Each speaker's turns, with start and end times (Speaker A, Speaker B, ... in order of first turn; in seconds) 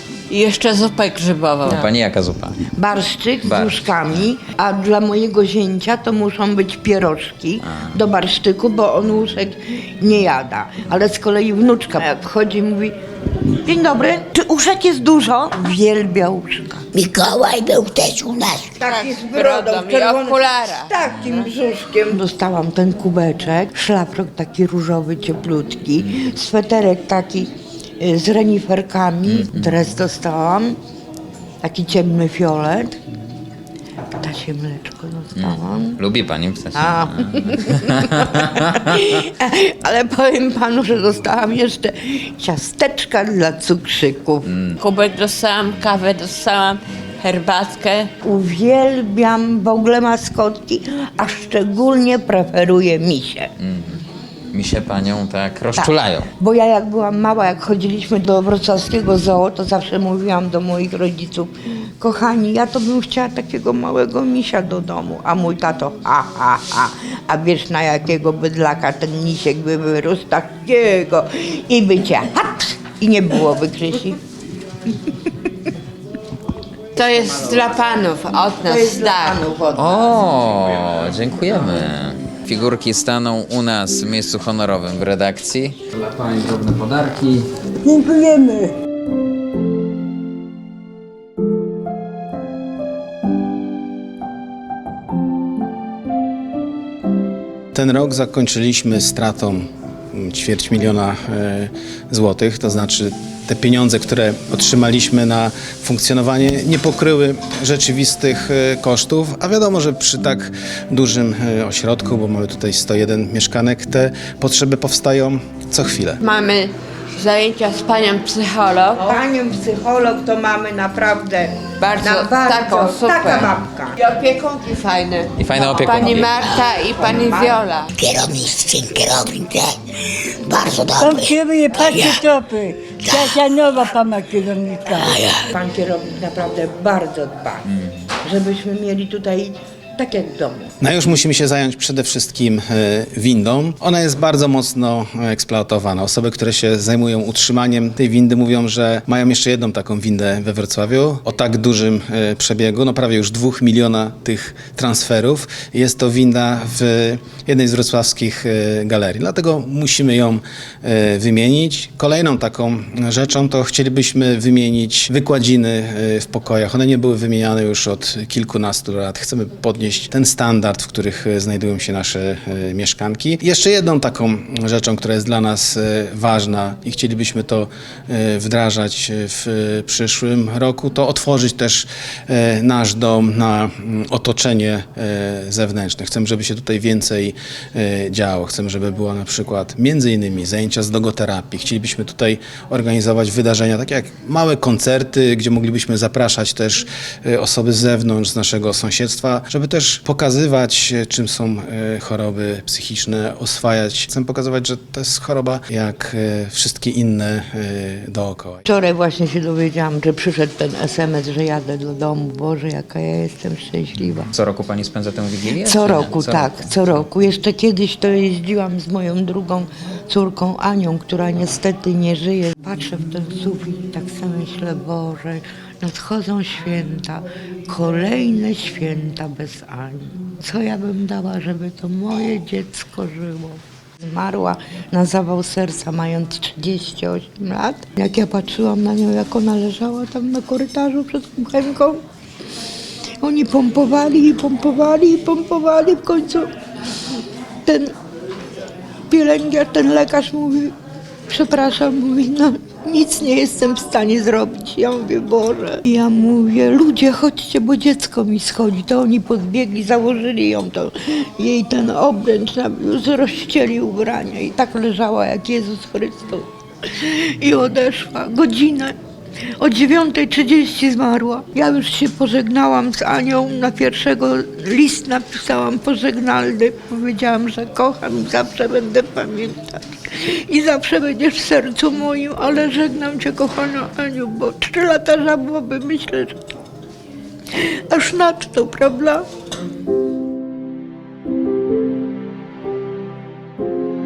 Speaker A: 0.3-1.9, 18.8-20.9, 44.8-48.1, 77.0-79.4, 116.2-119.2, 121.8-127.9
Speaker B: 1.6-2.6, 3.4-4.3, 29.3-29.8, 35.4-39.0, 44.5-44.8, 53.6-54.0, 54.5-56.3, 79.8-87.5, 125.4-126.4, 214.3-217.1
Speaker C: 2.7-12.9, 13.5-16.9, 18.8-27.5, 28.0-30.8, 31.6-33.0, 34.2-36.0, 36.7-44.5, 48.2-53.5, 55.8-74.2, 77.4-77.7, 78.6-80.0, 119.0-124.0, 125.9-127.6, 135.5-137.7, 138.2-140.7, 208.7-214.3, 215.6-242.0, 243.2-246.5, 247.7-247.9, 249.1-250.7, 251.3-268.9, 269.6-286.4, 287.6-289.2
Speaker D: 16.9-18.8, 127.9-132.3, 133.0-133.4, 135.0-135.5
Speaker E: 87.8-88.7, 130.8-135.2
Speaker F: 97.7-116.2, 140.8-208.6